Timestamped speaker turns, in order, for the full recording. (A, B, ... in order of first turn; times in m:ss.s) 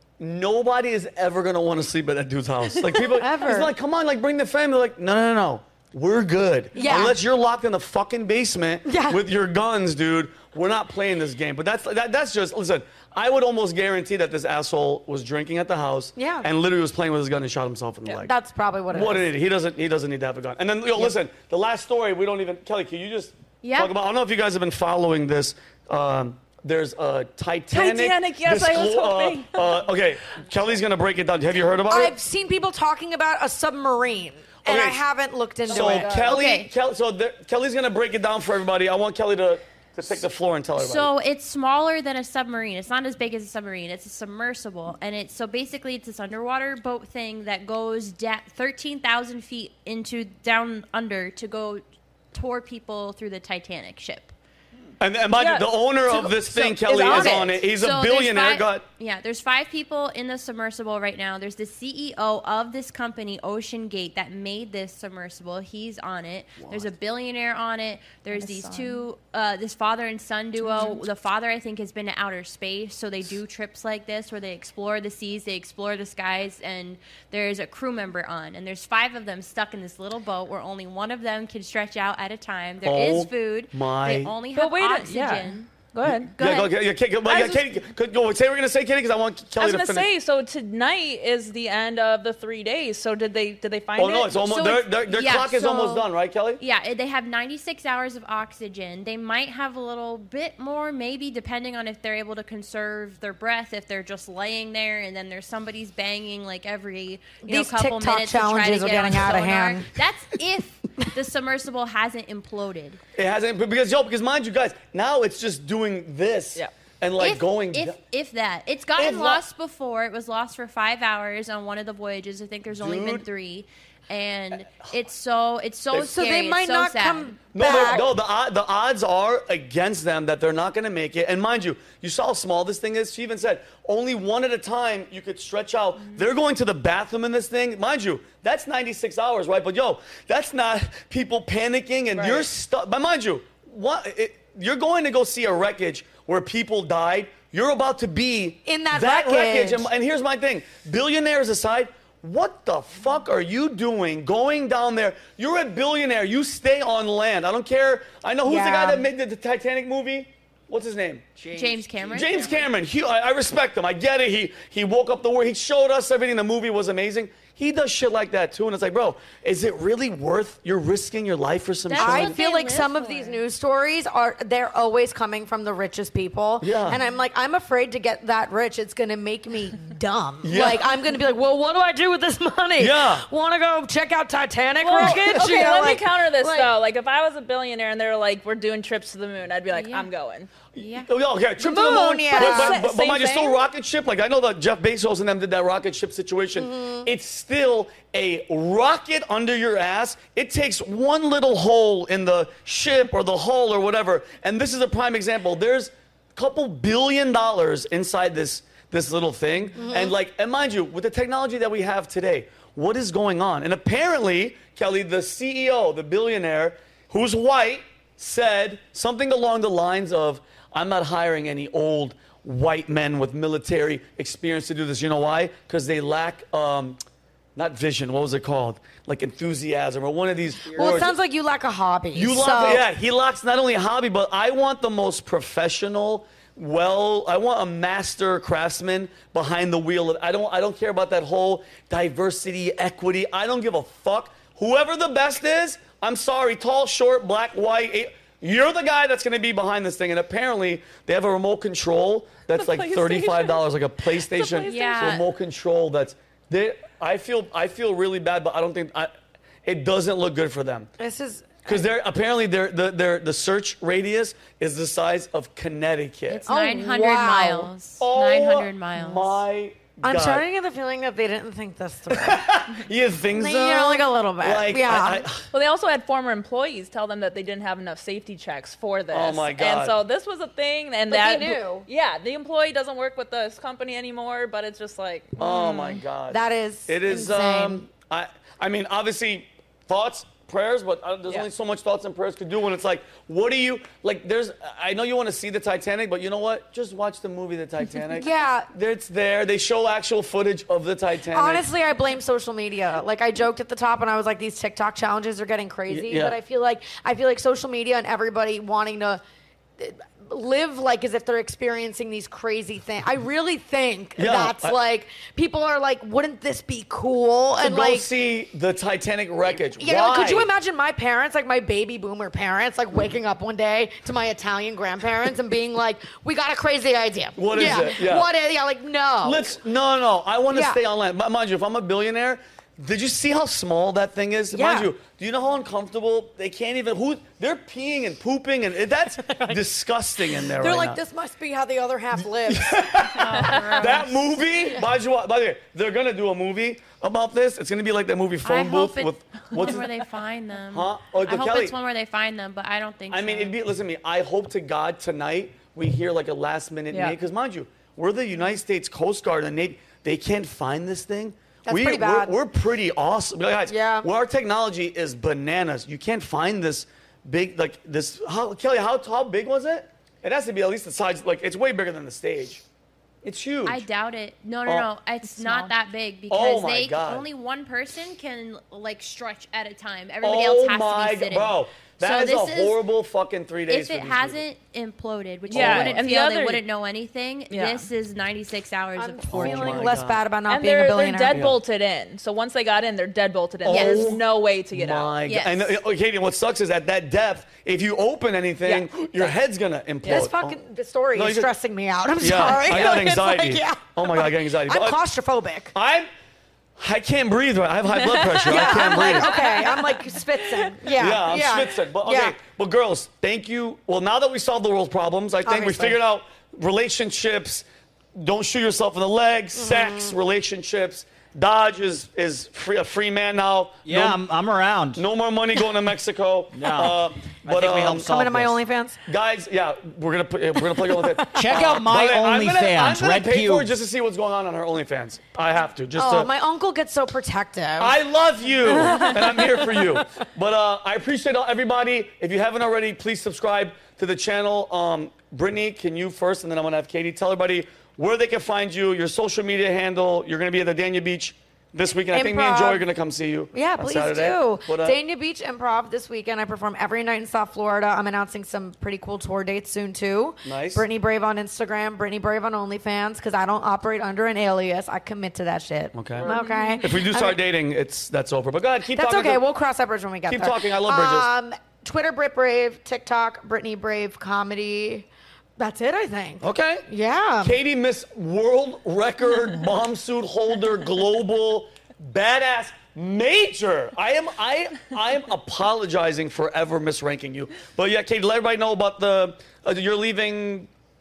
0:00.2-0:18.3 A
0:03.0-0:03.7 B
0:06.8-0:07.2 B
0:08.8-0:09.2 B
0:16.2-0:16.5 B
0:18.3-0:19.3 B
0:18.9-0:32.2 A
0:23.6-0:23.9 C
0:27.7-0:29.8 D
0:31.9-0:36.2 B
0:34.6-0:35.0 A
0:35.7-0:36.4 D
0:35.7-0:41.1 A
0:36.3-0:36.7 C
0:40.8-0:54.3 C
0:55.0-0:58.8 A
0:55.4-0:57.6 D
0:57.1-1:25.7 C
1:06.6-1:06.9 A
1:08.3-1:09.0 D
1:10.6-1:11.0 D
1:22.8-1:24.4 A
1:24.5-1:26.4 D
1:26.2-1:26.7 C
1:26.4-1:30.1 A
1:27.3-1:27.6 D
1:29.6-1:34.9 D
1:34.0-1:36.6 A
1:35.1-1:36.1 C
1:36.6-1:53.0 C
1:47.4-1:49.9 B
1:53.2-1:58.0 A
1:57.2-2:07.4 C
1:59.0-1:59.4 A
2:02.7-2:03.3 A
2:05.9-2:08.1 B
2:07.5-2:41.3 A
2:28.7-2:29.9 B
2:38.4-2:39.1 B
2:41.4-2:42.4 E
2:41.5-2:42.6 C
2:42.1-2:52.4 A
2:51.9-2:53.4 C
2:52.0-3:06.7 B
2:56.6-2:57.0 A
3:00.4-3:00.9 A
3:02.8-3:03.2 A
3:04.8-3:10.5 D
3:05.0-3:05.6 A
3:09.7-3:10.1 C
3:10.8-3:47.0 A
3:10.8-3:11.1 C
3:11.6-3:12.8 B
3:12.3-3:13.6 D
3:16.6-3:17.1 B
3:29.8-3:30.2 B
3:47.6-3:51.1 A
3:50.7-3:51.1 E
3:50.8-3:52.8 B
3:52.2-4:19.1 A
4:12.5-4:15.2 D
4:14.7-4:15.3 C
4:19.6-4:20.9 A
4:21.0-4:21.8 B
4:21.7-4:26.5 A
4:26.3-4:29.4 C
4:26.5-4:27.7 B
4:28.0-4:30.4 A
4:30.0-4:32.5 B
4:32.1-4:35.5 A
4:33.3-4:35.2 B
4:35.5-4:46.0 D
4:39.1-4:40.0 A
4:41.1-4:41.9 B
4:45.4-5:01.7 A
4:46.3-4:47.9 B
4:58.1-4:58.7 B
5:01.3-5:09.2 B
5:05.9-5:06.4 A
5:09.8-5:18.1 B
5:14.2-5:14.8 A
5:17.6-5:20.5 A
5:19.8-5:29.5 B
5:27.4-5:28.3 A
5:29.2-5:41.0 A
5:30.5-5:30.8 B
5:34.5-5:34.9 B
5:39.2-5:39.6 B
5:40.5-5:42.9 B
5:42.4-5:49.9 A
5:43.1-5:44.4 C
5:48.4-5:53.5 C
5:50.7-5:51.7 A
5:53.1-6:12.6 A
5:56.9-5:57.2 D
6:01.7-6:02.4 B
6:03.7-6:04.1 B
6:13.2-6:13.8 A
6:13.6-6:22.8 C
6:15.2-6:15.7 D
6:16.3-6:17.3 A
6:20.2-6:24.4 A
6:23.7-6:29.9 C
6:25.5-6:26.6 D
6:25.5-6:26.0 A
6:27.5-6:27.9 D
6:29.0-6:31.4 B
6:29.3-6:30.2 A
6:30.5-6:35.1 D
6:31.3-6:31.6 A
6:33.6-6:34.2 A
6:33.6-6:34.2 C
6:34.7-6:40.6 A
6:35.2-6:35.8 C
6:38.6-6:39.3 D
6:40.0-6:40.3 D
6:40.1-6:45.7 B
6:41.2-6:41.5 A
6:42.2-6:45.0 A
6:45.7-6:46.1 A
6:46.8-6:49.5 A
6:47.9-6:50.0 D
6:48.4-6:52.4 B
6:51.0-7:04.2 A
6:55.4-6:56.0 B
6:59.6-7:00.1 B
7:03.8-7:05.0 E
7:05.0-7:08.2 A
7:06.5-7:08.6 E
7:07.9-7:09.0 B
7:09.1-7:16.3 A
7:10.6-7:11.6 B
7:11.3-7:13.7 E
7:16.0-7:17.9 B
7:17.8-7:35.0 A
7:18.7-7:20.0 B
7:32.1-7:32.8 B
7:33.5-7:47.4 B
7:40.4-7:40.8 A
7:45.9-7:49.4 A
7:46.3-7:46.8 D
7:48.9-7:55.1 B
7:50.3-7:51.3 A
7:55.6-7:57.5 B
7:56.4-7:56.8 A
7:57.4-8:10.7 A